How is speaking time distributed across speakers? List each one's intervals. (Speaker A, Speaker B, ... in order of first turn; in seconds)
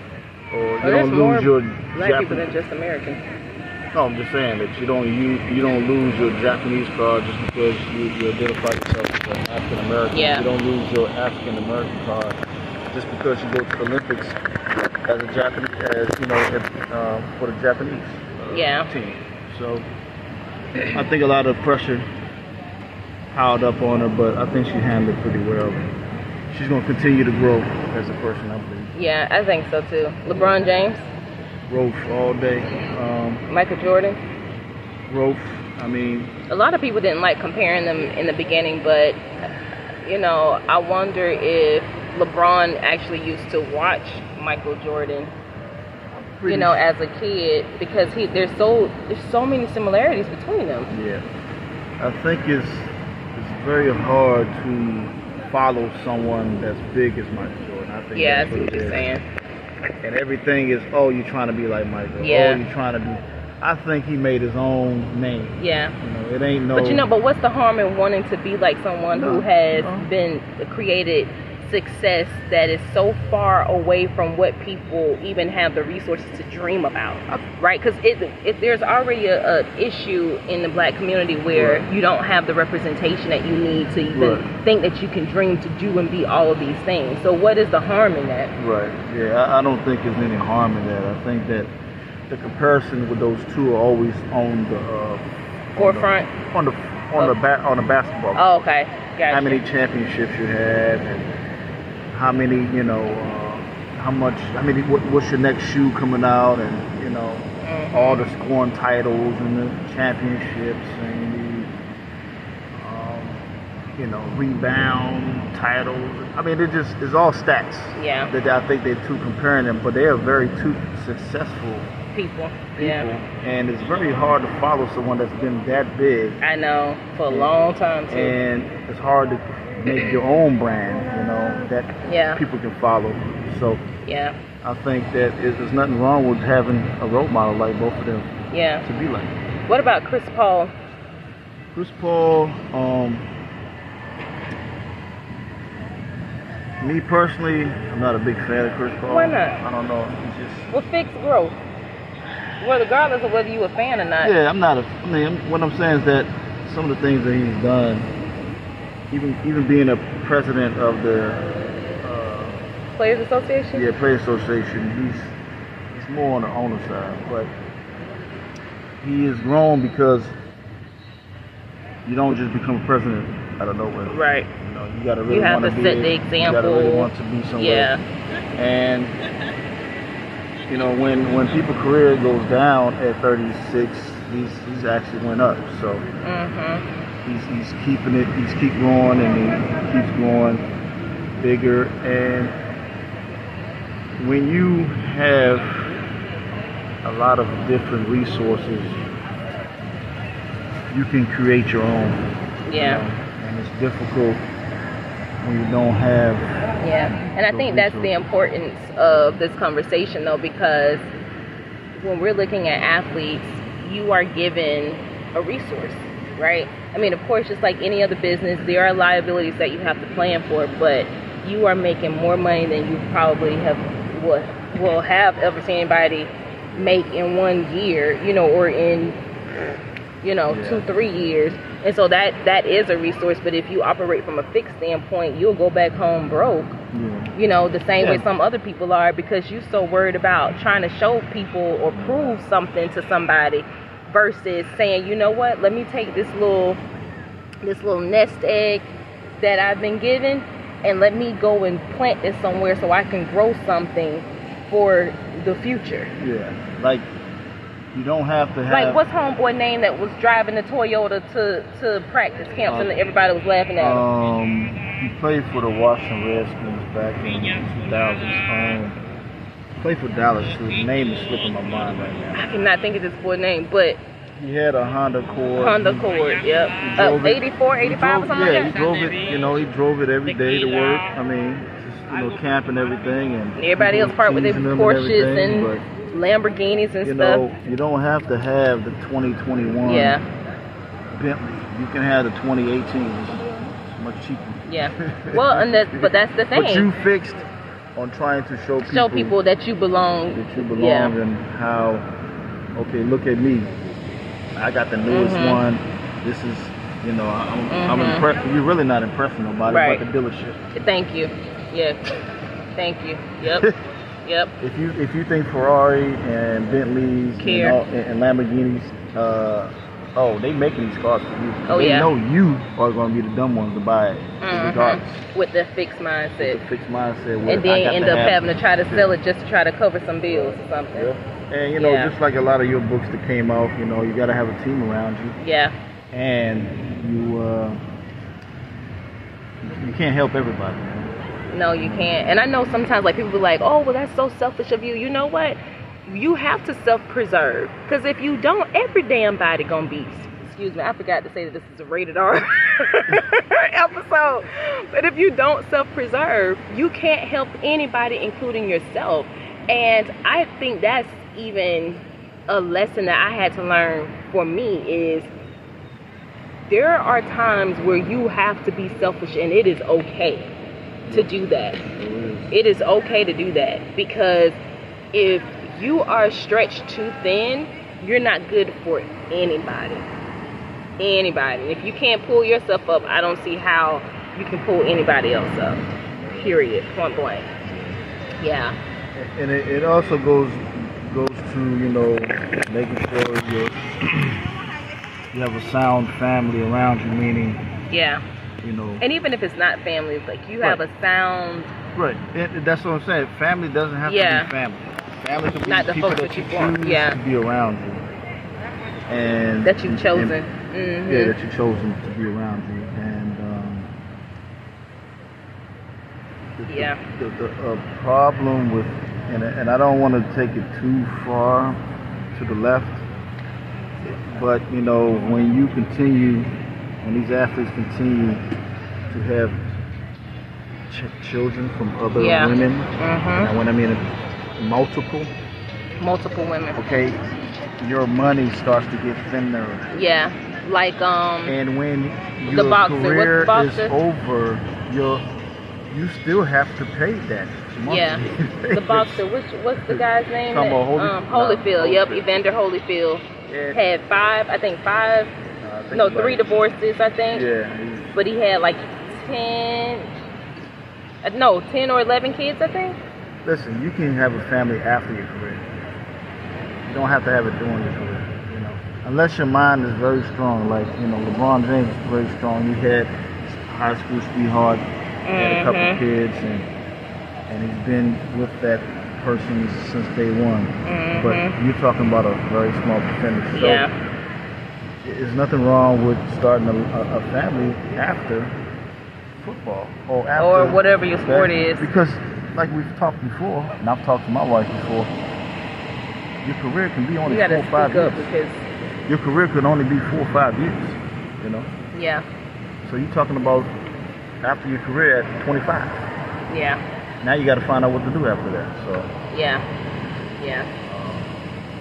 Speaker A: 0.5-2.5, 3.9-19.9, 20.9-22.1, 23.3-25.9, 26.5-28.9, 30.3-30.6, 31.7-33.4, 35.1-36.3, 46.2-46.8, 50.9-51.2, 52.0-59.1, 60.0-67.1, 69.1-70.1, 81.5-81.9, 84.1-84.5, 88.6-91.7, 92.3-95.2, 95.7-98.4, 99.3-101.3, 102.1-111.7, 112.7-113.4, 114.0-121.9, 122.8-126.4, 127.3-127.6, 128.1-133.8, 134.6-138.3, 138.8-139.3, 141.7-143.3, 146.8-150.7, 154.2-158.1, 159.1-161.5, 162.0-162.6, 163.7-165.4, 165.9-167.5, 169.0-170.3, 172.1-177.9, 178.6-179.2, 180.7-186.1, 187.2-190.7, 191.4-192.6, 194.2-195.9, 197.0-199.0, 200.9-202.2, 202.8-204.4, 205.4-206.4, 207.1-208.2, 230.5-230.8, 236.9-237.3, 238.0-238.3, 241.9-242.3, 256.2-257.1, 257.9-259.0, 262.7-262.9, 263.8-269.0, 269.8-272.4, 274.4-276.1, 276.8-285.8, 287.0-290.2, 291.1-297.4, 298.0-299.4, 300.3-302.1, 302.8-303.8, 304.6-310.6, 313.4-313.7, 314.6-325.2, 326.4-329.1, 330.3-335.4, 336.1-337.8, 339.6-341.1, 341.8-342.1, 371.1-371.3, 371.9-372.5, 387.6-388.0, 389.1-394.4, 395.3-397.6, 398.6-399.0, 401.9-408.1, 409.1-410.4, 411.1-413.9, 416.6-421.8, 422.3-423.0, 424.0-426.5, 427.0-428.4, 429.1-429.6, 430.9-435.3, 436.8-437.2, 437.8-439.9, 441.5-449.2, 449.9-452.4, 453.5-453.8, 455.6-456.6, 457.3-458.1, 463.4-465.6, 466.9-474.8, 475.3-476.7, 477.5-483.9, 485.0-488.6, 489.4-495.1, 496.4-498.3, 499.1-501.7, 502.8-503.7, 504.4-506.0, 507.2-509.1, 510.9-511.4
Speaker B: 0.8-3.2, 10.1-10.5, 18.5-18.9, 28.9-31.0, 33.5-34.2, 36.5-39.2, 40.0-45.3, 46.5-50.9, 58.1-59.2, 62.2-62.6, 65.6-66.0, 66.7-88.5, 95.8-96.3, 98.3-99.6, 107.6-108.3, 118.0-118.3, 122.1-123.1, 126.4-128.4, 132.1-132.4, 134.0-134.4, 138.5-138.8, 139.7-140.7, 149.1-149.6, 150.7-151.6, 152.6-154.4, 162.9-163.9, 174.1-174.5, 175.3-178.0, 186.2-186.8, 202.7-203.1, 206.8-211.1, 211.9-229.2, 230.2-236.8, 237.3-246.8, 247.6-256.1, 258.7-264.1, 272.4-274.0, 275.6-278.8, 283.6-287.4, 289.8-290.2, 294.7-296.9, 298.8-301.1, 305.1-305.6, 307.7-308.3, 309.7-310.0, 310.8-312.0, 312.8-313.7, 314.2-314.5, 317.4-317.8, 321.7-322.1, 324.4-326.6, 327.4-331.1, 331.8-332.1, 335.4-335.7, 341.5-365.3, 366.7-370.5, 371.1-371.8, 372.5-374.6, 375.1-380.1, 381.0-387.5, 388.4-388.8, 397.9-398.2, 399.0-401.7, 404.1-404.5, 405.6-407.2, 409.6-411.4, 416.7-417.0, 432.1-433.5, 436.0-436.8, 439.9-441.6, 442.5-443.9, 447.9-455.3, 455.9-457.5, 458.1-460.1, 461.2-463.0, 475.2-476.0, 480.9-481.6, 483.5-483.9, 490.4-491.9, 497.3-498.6, 501.9-502.2, 506.5-506.8, 509.3-509.6, 510.4-510.7